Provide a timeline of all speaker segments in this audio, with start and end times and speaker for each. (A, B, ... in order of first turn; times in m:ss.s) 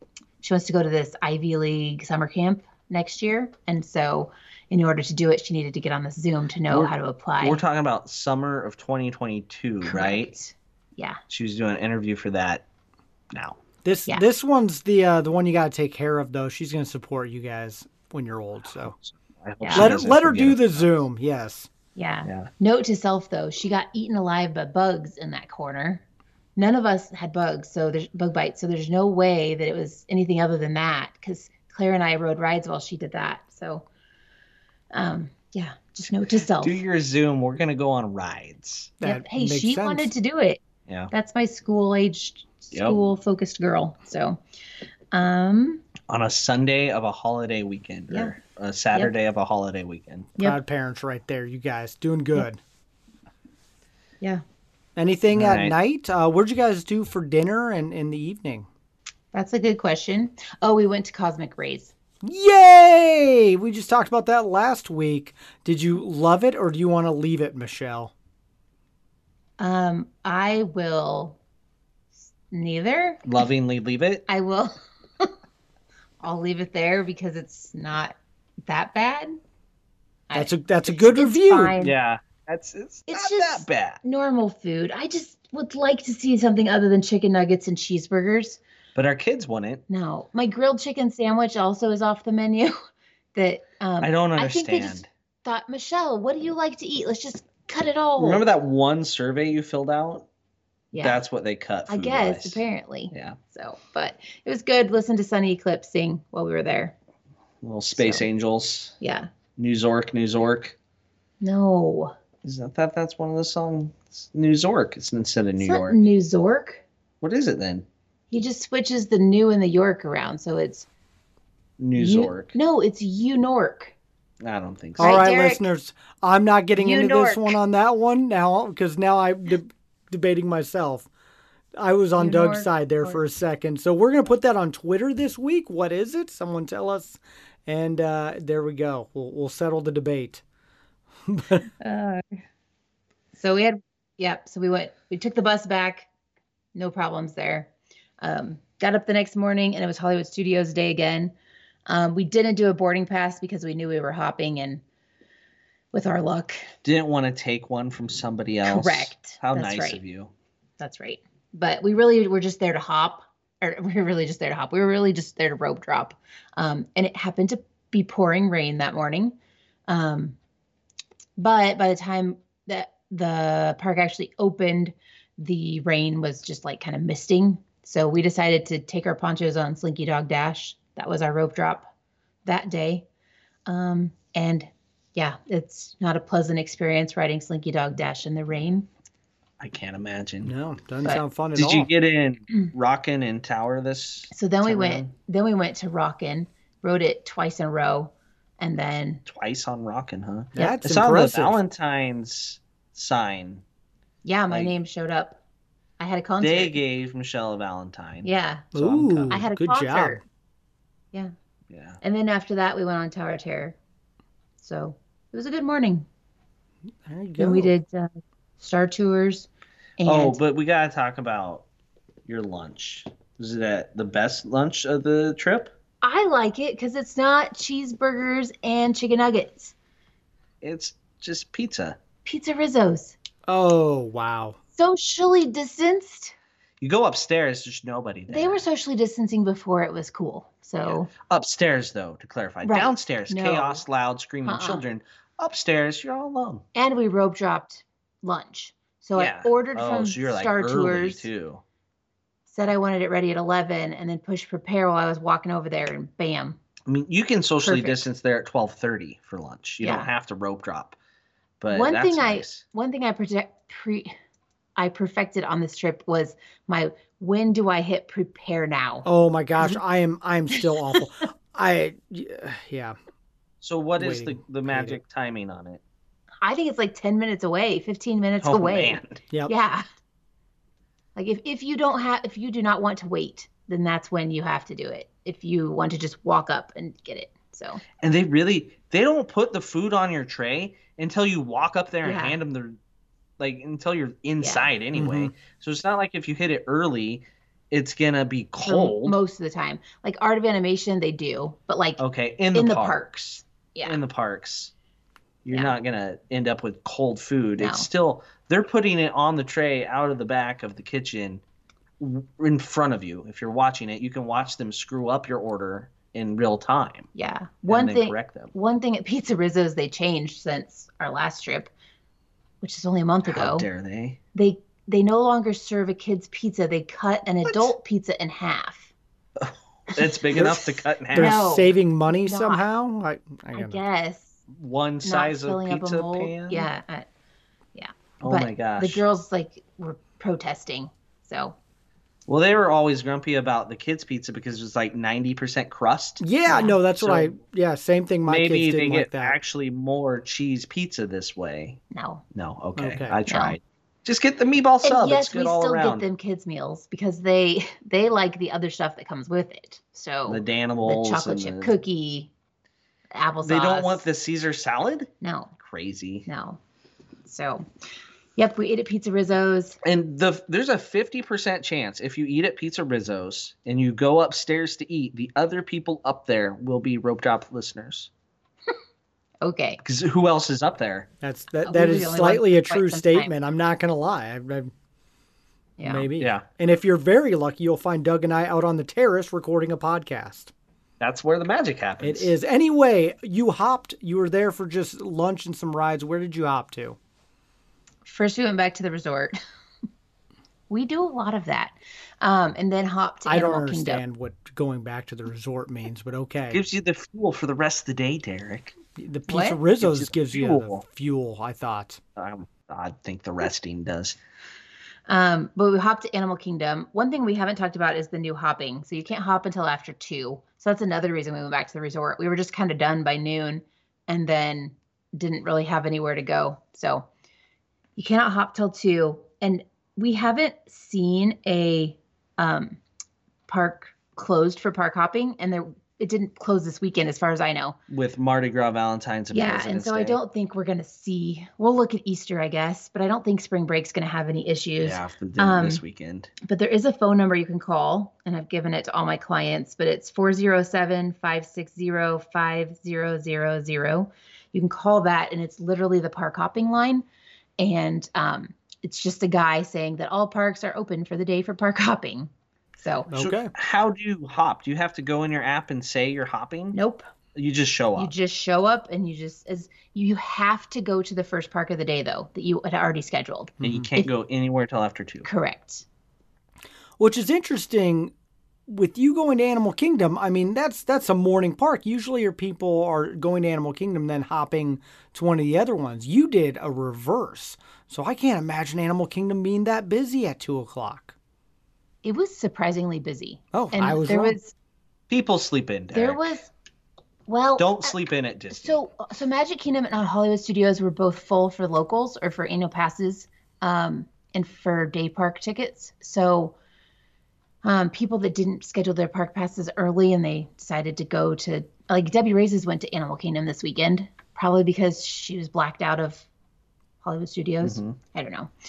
0:00.4-0:07.6 A
0:06.7-0:10.3 B
0:09.8-0:11.2 A
0:11.3-0:12.6 B
0:13.3-0:13.6 B
0:13.8-0:19.0 C
0:18.8-0:20.9 B
0:19.6-0:19.9 A
0:19.7-0:21.7 C
0:22.0-0:26.0 A
0:22.2-0:22.5 B
0:26.6-0:33.9 A
0:34.9-0:36.8 A
0:36.6-0:38.9 B
0:39.0-0:40.1 C
0:39.0-0:44.4 A
0:42.7-0:43.0 B
0:45.1-0:45.8 A
0:46.1-0:50.3 B
0:48.1-0:48.3 A
0:50.4-0:52.6 C
0:55.0-0:58.7 C
0:55.3-0:55.7 B
0:59.3-1:01.9 A
1:02.2-1:08.1 C
1:09.6-1:11.4 A
1:12.5-1:13.3 A
1:13.3-1:14.2 B
1:14.3-1:15.3 A
1:16.2-1:19.3 A
1:20.3-1:21.9 A
1:20.3-1:21.7 C
1:21.8-1:24.0 B
1:23.1-1:28.6 A
1:28.9-1:29.8 B
1:29.9-1:32.8 A
1:33.3-1:38.4 A
1:34.0-1:35.1 B
1:38.2-1:40.3 B
1:40.9-1:41.2 A
1:41.0-1:43.4 B
1:41.9-1:46.9 A
1:47.6-1:49.0 B
1:47.9-1:48.2 A
1:49.0-1:49.3 A
1:49.6-1:50.8 B
1:51.4-1:52.1 A
1:52.4-1:56.0 B
1:55.6-1:56.8 A
1:57.2-1:57.9 B
1:58.3-2:00.9 A
2:01.8-2:02.5 B
2:02.0-2:03.9 A
2:04.4-2:05.2 B
2:05.0-2:05.6 A
2:05.0-2:11.1 C
2:06.8-2:07.6 A
2:11.8-2:20.4 C
2:12.2-2:13.2 A
2:21.3-2:21.7 C
2:21.8-2:22.2 A
2:23.4-2:26.1 A
2:26.7-2:31.3 A
2:31.9-2:34.8 A
2:35.9-2:36.7 A
2:36.8-2:40.3 B
2:38.6-2:40.0 A
2:40.8-2:49.3 A
2:49.9-2:50.4 A
2:51.4-3:01.9 A
3:02.4-3:03.0 A
3:03.7-3:08.9 A
3:09.6-3:10.5 B
3:10.4-3:11.9 C
3:11.6-3:15.1 B
3:14.3-3:19.2 A
3:19.3-3:23.6 B
3:20.6-3:21.6 C
3:24.2-3:25.4 A
3:26.0-3:26.8 A
3:26.4-3:29.4 B
3:28.2-3:28.7 A
3:28.7-3:30.2 C
3:29.3-3:30.2 A
3:31.7-3:32.0 B
3:32.0-3:33.8 A
3:34.6-3:36.0 A
3:37.0-3:37.7 C
3:37.4-3:39.5 A
3:40.0-3:40.4 A
3:40.0-3:41.6 B
3:42.3-3:45.7 B
3:46.0-3:49.7 A
3:50.6-3:52.0 B
3:52.2-3:53.2 A
3:53.5-3:54.6 C
3:54.8-3:56.3 A
3:56.8-3:58.6 B
3:58.3-4:01.1 A
4:00.8-4:06.6 B
4:02.6-4:03.8 A
4:04.4-4:04.8 A
4:06.7-4:11.3 A
4:09.1-4:11.6 B
4:12.5-4:16.6 A
4:16.9-4:21.0 B
4:17.6-4:18.0 A
4:19.8-4:20.1 A
4:21.6-4:22.6 B
4:21.7-4:24.1 A
4:24.8-4:29.0 A
4:29.0-4:33.0 C
4:30.5-4:31.0 A
4:33.6-4:35.8 B
4:34.0-4:35.0 C
4:36.4-4:39.8 A
4:38.4-4:39.2 B
4:41.2-4:47.8 A
4:48.0-4:52.8 B
4:52.0-4:52.4 A
4:53.4-4:59.2 B
4:54.4-4:54.7 A
4:54.9-4:55.3 C
4:58.6-5:02.0 A
5:02.0-5:04.7 B
5:02.5-5:04.0 A
5:05.4-5:11.4 B
5:07.6-5:07.9 A
5:12.0-5:17.1 B
5:17.1-5:21.7 A
5:17.7-5:18.5 B
5:22.6-5:23.7 A
5:23.2-5:24.2 B
5:24.3-5:28.9 A
5:29.4-5:31.4 B
5:29.9-5:30.6 A
5:31.1-5:32.6 A
5:31.1-5:33.8 C
5:33.5-5:34.4 A
5:34.5-5:36.7 B
5:35.0-5:37.0 A
5:37.7-5:41.6 A
5:38.2-5:39.0 B
5:42.3-5:46.2 B
5:46.2-5:49.4 C
5:46.4-5:46.8 A
5:47.0-5:47.4 B
5:48.3-5:51.8 B
5:51.9-5:52.2 A
5:52.3-5:56.0 B
5:52.8-5:53.2 C
5:53.3-5:53.6 A
5:54.8-6:02.3 A
6:00.3-6:01.7 B
6:03.1-6:04.0 A
6:03.4-6:06.3 B
6:05.2-6:05.6 A
6:06.3-6:06.6 A
6:07.2-6:07.6 A
6:08.4-6:09.8 A
6:09.8-6:18.1 B
6:19.4-6:19.8 A
6:19.8-6:21.1 B
6:21.2-6:24.7 C
6:21.6-6:23.3 A
6:25.8-6:26.1 A
6:25.8-6:30.5 C
6:26.2-6:26.4 B
6:31.0-6:32.3 B
6:32.0-6:37.0 C
6:38.0-6:39.4 A
6:40.7-6:44.0 A
6:43.3-6:46.6 C
6:46.5-6:48.8 B
6:49.0-6:52.0 C
6:49.3-6:49.6 A
6:49.8-6:50.8 B
6:52.2-6:54.2 B
6:55.1-7:07.0 A
7:08.0-7:12.8 A
7:13.5-7:17.8 A
7:17.9-7:20.2 B
7:19.3-7:25.8 A
7:24.8-7:26.3 B
7:26.4-7:37.0 A
7:37.6-7:43.1 A
7:43.1-7:43.5 C
7:43.1-7:46.8 B
7:46.7-7:47.0 A
7:47.3-7:48.1 B
7:48.0-7:54.1 A
7:53.6-7:53.9 C
7:53.6-7:55.3 B
7:55.2-7:55.8 A
7:57.0-7:58.1 C
7:58.7-8:11.1 C
8:12.0-8:14.5 A
8:13.5-8:14.4 C
8:15.1-8:16.4 B
8:15.9-8:16.5 A
8:17.3-8:17.9 A
8:17.6-8:18.8 B
8:18.5-8:26.6 A
8:27.6-8:36.3 A
8:37.0-8:38.5 A
8:37.6-8:38.0 B